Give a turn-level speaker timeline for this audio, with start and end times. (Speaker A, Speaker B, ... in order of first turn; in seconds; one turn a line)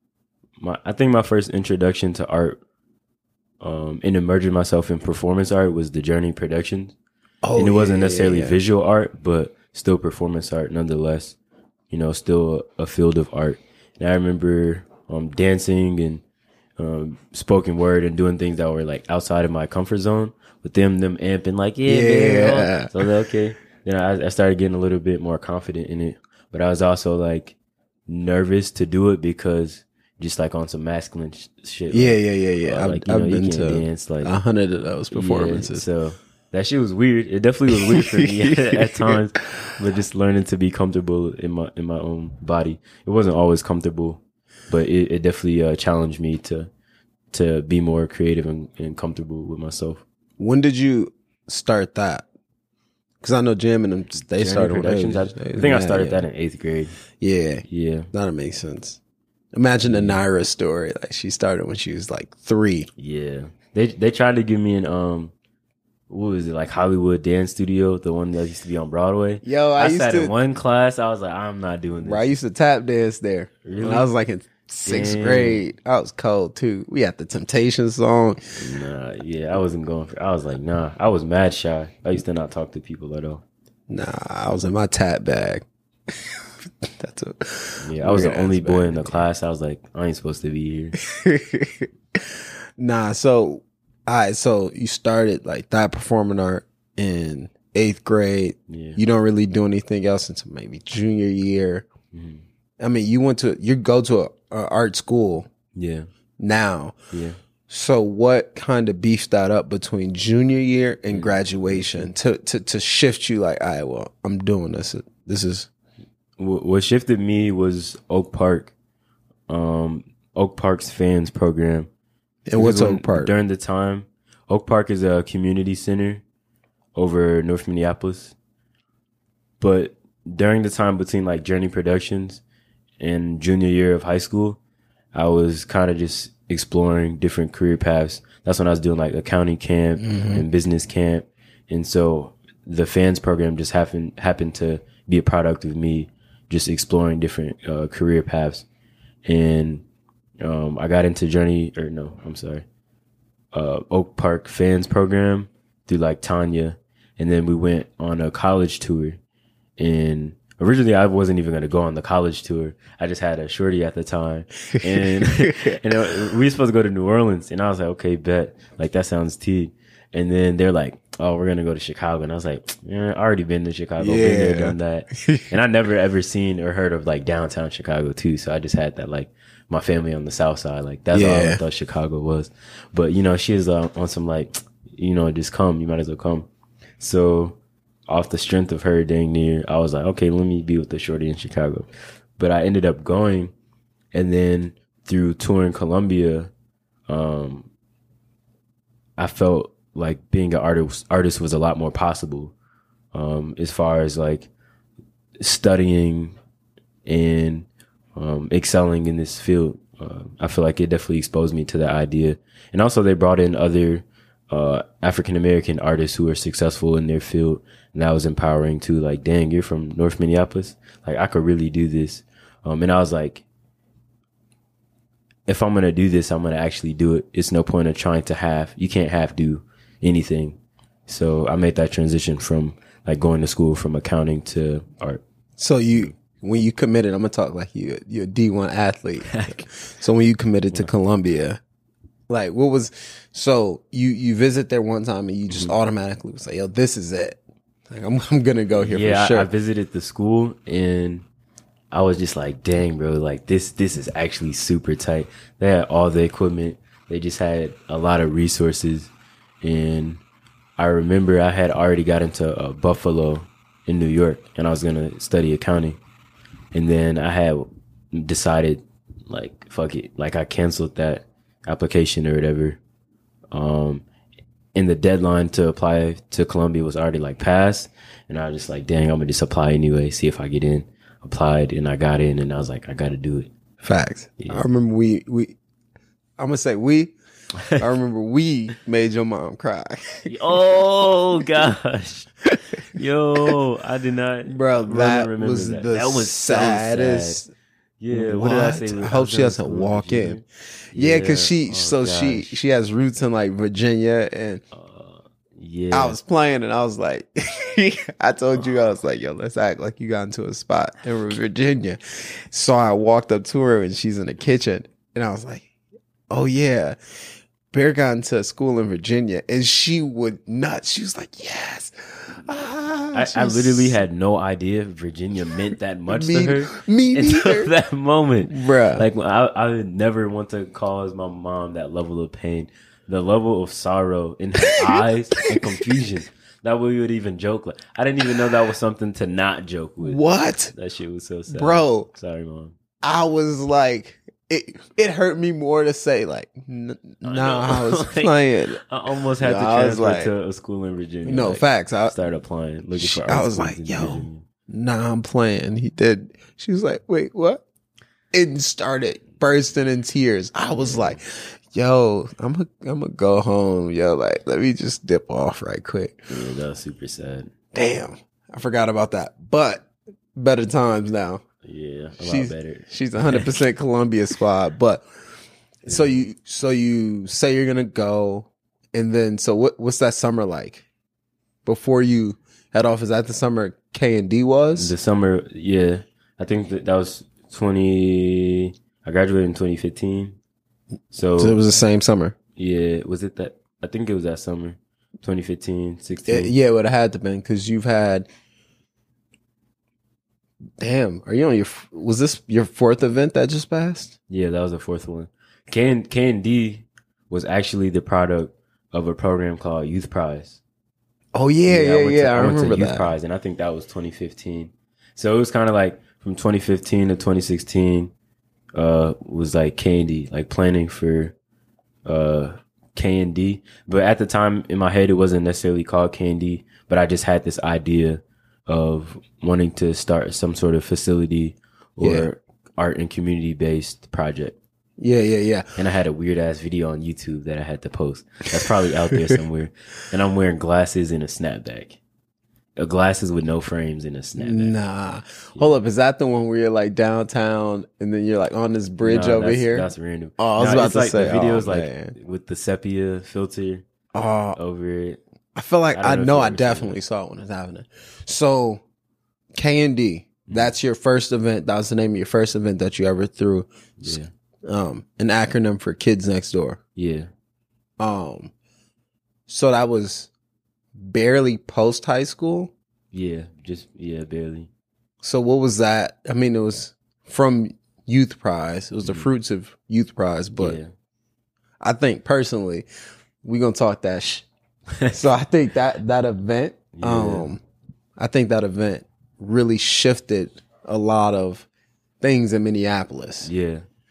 Speaker A: 0.6-2.6
Speaker A: 3.6-7.0
Speaker B: 7.4-8.6
Speaker A: 7.6-11.4
Speaker A: 11.9-16.2
Speaker A: 16.8-27.6
Speaker B: 21.9-22.9
Speaker A: 28.1-34.3
Speaker B: 31.9-35.9
Speaker A: 35.1-46.7
Speaker B: 37.9-39.2
Speaker A: 47.3-50.0
Speaker B: 50.4-52.3
Speaker B: 53.2-56.2
Speaker A: 54.2-57.0
Speaker B: 57.2-59.0
Speaker A: 57.7-58.1
Speaker B: 59.5-62.9
Speaker A: 59.8-60.2
Speaker A: 63.0-65.3
Speaker A: 66.1-72.3
Speaker B: 69.4-70.3
Speaker B: 72.0-78.4
Speaker A: 73.7-74.1
Speaker A: 74.9-75.6
Speaker A: 78.6-83.4
Speaker B: 83.9-89.2
Speaker A: 87.8-91.0
Speaker B: 91.0-101.9
Speaker A: 98.7-99.0
Speaker A: 102.1-102.4
Speaker B: 102.8-105.5
Speaker A: 105.8-106.1
Speaker B: 106.4-107.0
Speaker A: 107.1-107.4
Speaker B: 107.7-115.7
Speaker A: 111.1-112.1
Speaker A: 116.4-118.7
Speaker A: 119.5-121.9
Speaker B: 122.5-123.3
Speaker A: 122.6-126.2
Speaker A: 127.0-128.3
Speaker A: 129.6-132.4
Speaker A: 133.0-134.6
Speaker A: 135.1-148.7
Speaker B: 140.0-140.4
Speaker A: 149.2-149.8
Speaker A: 150.4-152.7
Speaker A: 153.5-159.2
Speaker A: 159.8-186.5
Speaker B: 174.0-175.4
Speaker B: 181.1-181.6
Speaker A: 187.0-187.6
Speaker A: 188.1-191.9
Speaker A: 192.4-193.5
Speaker A: 194.1-196.5
Speaker A: 197.1-197.7
Speaker A: 199.2-202.5
Speaker A: 203.1-204.5
Speaker A: 205.4-206.4
Speaker A: 207.1-223.4
Speaker A: 225.5-235.2
Speaker B: 235.6-241.6
Speaker A: 239.2-239.6
Speaker B: 242.3-249.5
Speaker A: 245.5-245.7
Speaker A: 248.8-251.3
Speaker A: 251.9-259.1
Speaker A: 259.6-260.2
Speaker A: 260.8-266.0
Speaker A: 266.7-272.8
Speaker A: 273.5-274.0
Speaker A: 274.8-283.5
Speaker B: 283.8-285.6
Speaker A: 284.4-284.6
Speaker B: 286.4-287.1
Speaker B: 287.8-290.8
Speaker A: 290.3-297.4
Speaker B: 294.5-297.5
Speaker A: 298.0-302.6
Speaker B: 298.1-304.6
Speaker A: 304.7-306.2
Speaker B: 305.9-315.7
Speaker B: 316.3-317.0
Speaker B: 317.7-324.0
Speaker A: 323.1-340.2
Speaker B: 326.1-327.7
Speaker B: 328.5-329.1
Speaker B: 334.6-335.0
Speaker B: 340.0-340.7
Speaker A: 340.7-342.7
Speaker B: 341.5-342.1
Speaker B: 343.0-348.8
Speaker A: 347.2-354.4
Speaker B: 349.4-350.3
Speaker B: 351.2-352.1
Speaker B: 353.0-357.6
Speaker B: 358.3-366.2
Speaker A: 360.8-361.2
Speaker A: 366.3-367.5
Speaker B: 367.7-371.4
Speaker A: 371.6-373.5
Speaker B: 372.2-375.1
Speaker B: 375.8-380.9
Speaker B: 381.6-384.9
Speaker A: 384.8-390.4
Speaker A: 391.1-391.6
Speaker B: 391.4-392.4
Speaker A: 392.6-396.5
Speaker B: 396.3-398.3
Speaker B: 400.8-404.1
Speaker A: 404.3-410.6
Speaker B: 411.3-413.1
Speaker A: 411.7-418.1
Speaker A: 418.8-421.4
Speaker A: 422.1-434.6
Speaker B: 432.0-432.3
Speaker B: 435.0-435.7
Speaker A: 435.8-442.0
Speaker A: 442.8-444.7
Speaker B: 444.4-452.1
Speaker A: 449.0-453.9
Speaker B: 454.1-454.6
Speaker A: 454.6-455.2
Speaker B: 455.6-458.8
Speaker A: 455.9-457.0
Speaker B: 459.6-466.8
Speaker A: 460.5-460.7
Speaker A: 464.0-464.3
Speaker A: 467.0-467.3
Speaker B: 468.0-468.5
Speaker B: 469.5-470.3
Speaker B: 471.0-472.7
Speaker A: 473.1-474.7
Speaker B: 475.2-480.8
Speaker A: 480.6-480.9
Speaker B: 481.8-482.9
Speaker B: 483.4-484.5
Speaker B: 485.1-487.6
Speaker A: 486.9-487.5
Speaker B: 488.2-491.7
Speaker B: 492.2-493.5
Speaker A: 493.4-493.9